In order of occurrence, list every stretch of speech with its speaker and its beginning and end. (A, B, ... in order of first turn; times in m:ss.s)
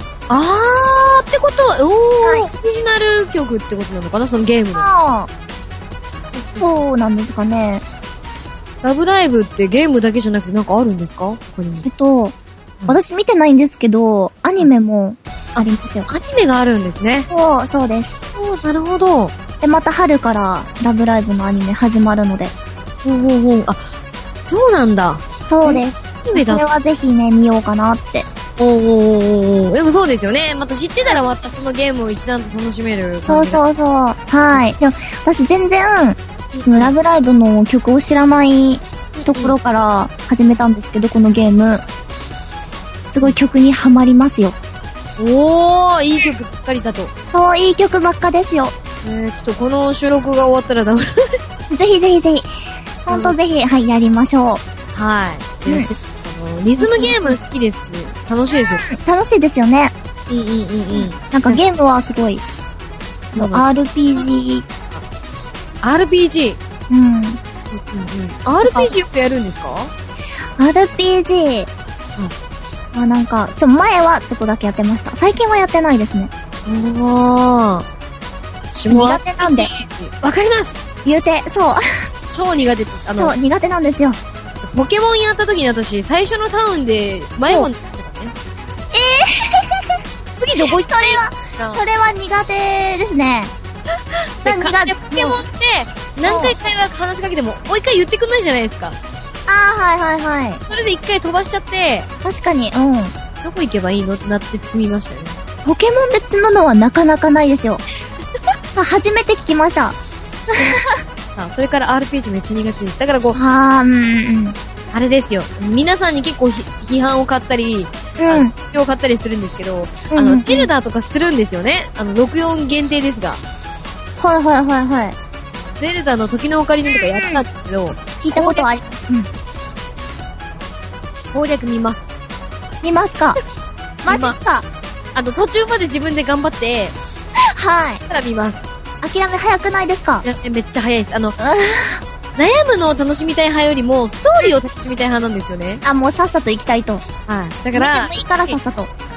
0:00.3-0:04.9 A
0:02.2-0:02.5 B
0:04.8-0:05.3 B
0:06.3-0:06.8 A
0:06.6-0:07.8 B
0:08.8-0:11.9 A
0:11.9-0:12.3 B
0:12.9-0:16.1 B
0:15.6-0:17.3 A
0:17.3-0:18.2 B
0:18.4-0:19.4 A
0:19.6-0:22.5 B
0:23.0-0:23.9 A
0:24.5-0:26.6 A
0:25.5-0:28.3 B
0:28.6-0:33.6 A
0:33.3-0:41.8 B
0:36.5-0:37.0 A
0:39.2-0:39.6 A
0:43.1-0:44.6 B
0:45.2-0:47.1 A
0:47.3-0:48.7 B
0:49.0-0:51.4 A
0:51.7-0:54.6 B
0:53.1-0:53.6 A
0:54.9-0:58.8 A
0:55.7-0:55.9 B
0:56.8-0:57.4 B
0:58.5-0:59.9 B
1:00.3-1:01.6 A
1:00.9-1:02.4 B
1:03.3-1:05.0 A
1:03.4-1:04.6 B
1:05.8-1:06.6 A
1:06.9-1:07.4 B
1:07.7-1:09.9 A
1:08.6-1:08.9 B
1:10.6-1:11.7 B
1:12.9-1:16.3 B
1:16.7-1:17.9 A
1:18.7-1:20.8 A
1:18.9-1:19.7 B
1:21.0-1:22.1 B
1:22.3-1:23.4 A
1:23.2-1:24.2 B
1:24.6-1:28.4 A
1:28.9-1:29.8 B
1:30.4-1:31.8 A
1:30.6-1:33.5 B
1:33.9-1:39.0 A
1:34.4-1:35.4 B
1:36.2-1:36.6 B
1:39.5-1:40.6 B
1:40.7-1:42.1 A
1:42.2-1:43.1 B
1:43.4-1:45.4 A
1:45.6-1:47.8 B
1:48.8-1:50.0 B
1:50.5-1:51.0 B
1:50.6-1:53.4 A
1:53.3-1:54.6 B
1:54.9-2:03.4 A
1:58.2-1:58.5 B
2:00.1-2:00.7 B
2:04.2-2:05.2 B
2:05.5-2:09.2 A
2:06.9-2:07.4 B
2:08.2-2:09.3 B
2:11.3-2:12.1 A
2:12.8-2:13.4 B
2:14.0-2:14.7 B
2:14.1-2:14.4 A
2:15.2-2:17.0 A
2:17.4-2:18.0 B
2:18.1-2:18.7 A
2:19.0-2:20.2 B
2:20.2-2:21.4 A
2:21.4-2:22.0 B
2:22.4-2:25.8 A
2:25.8-2:27.0 B
2:27.3-2:28.6 A
2:27.8-2:28.9 B